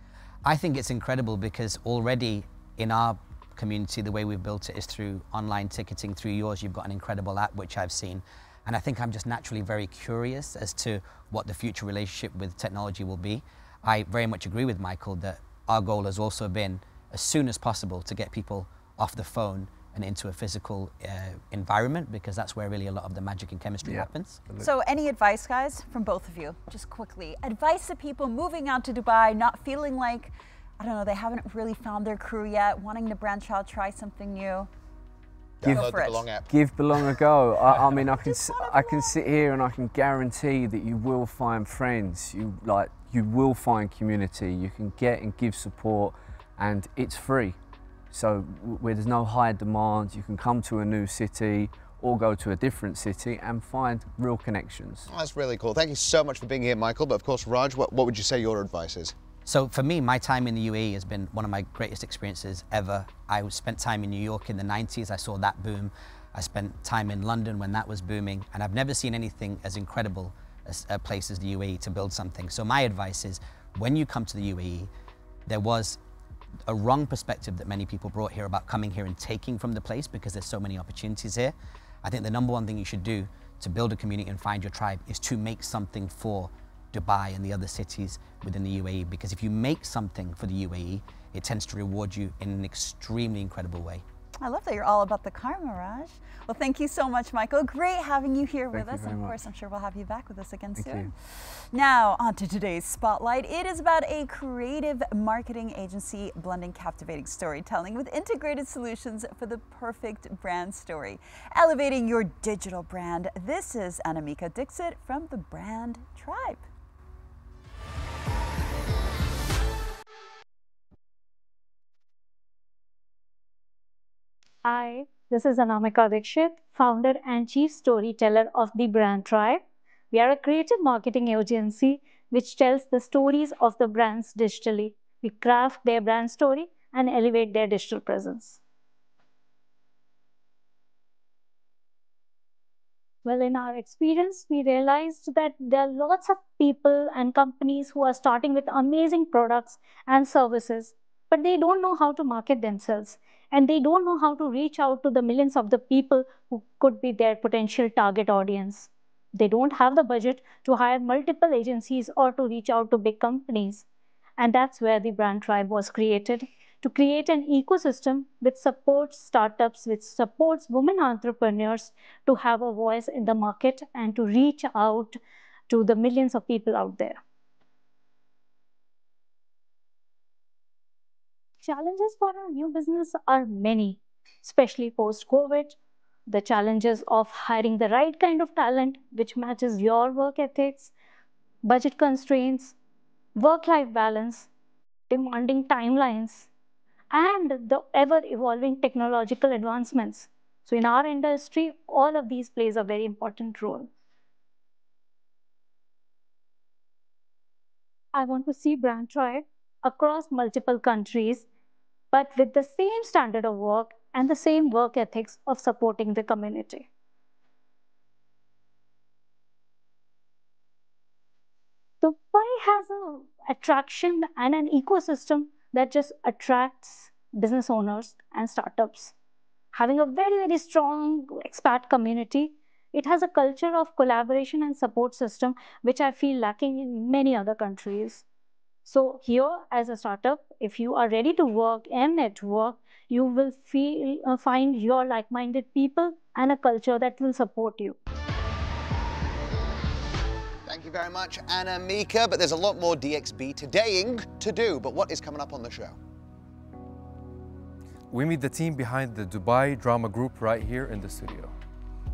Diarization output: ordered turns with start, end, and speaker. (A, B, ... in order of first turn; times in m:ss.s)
0:00.4-0:24.4 A
0:23.8-0:24.7 B
0:24.6-0:34.7 C
0:35.6-0:36.5 D
0:35.6-0:36.3 C
0:36.5-0:47.6 B
0:38.2-0:39.2 C
0:48.1-0:55.1 B
0:55.1-0:59.2 D
0:59.4-1:14.9 A
1:15.5-1:16.0 A
1:16.7-1:34.0 A
1:34.4-1:56.6 C
1:38.7-1:39.4 B
1:40.8-1:41.1 B
2:04.6-2:09.6 E
2:10.1-2:18.6 E
2:23.2-2:43.8 E
2:44.4-2:55.2 E
2:55.7-2:57.2 E
3:01.6-3:10.9 E
3:11.6-3:12.8 E
3:13.4-3:14.5 E
3:15.1-3:16.5 E
3:17.1-3:23.9 E
3:28.1-3:31.4 E
3:32.1-3:36.9 E
3:42.0-3:49.1 E
3:49.7-3:58.2 E
3:58.8-4:08.0 E
4:10.7-4:16.0 D
4:18.1-4:21.5 F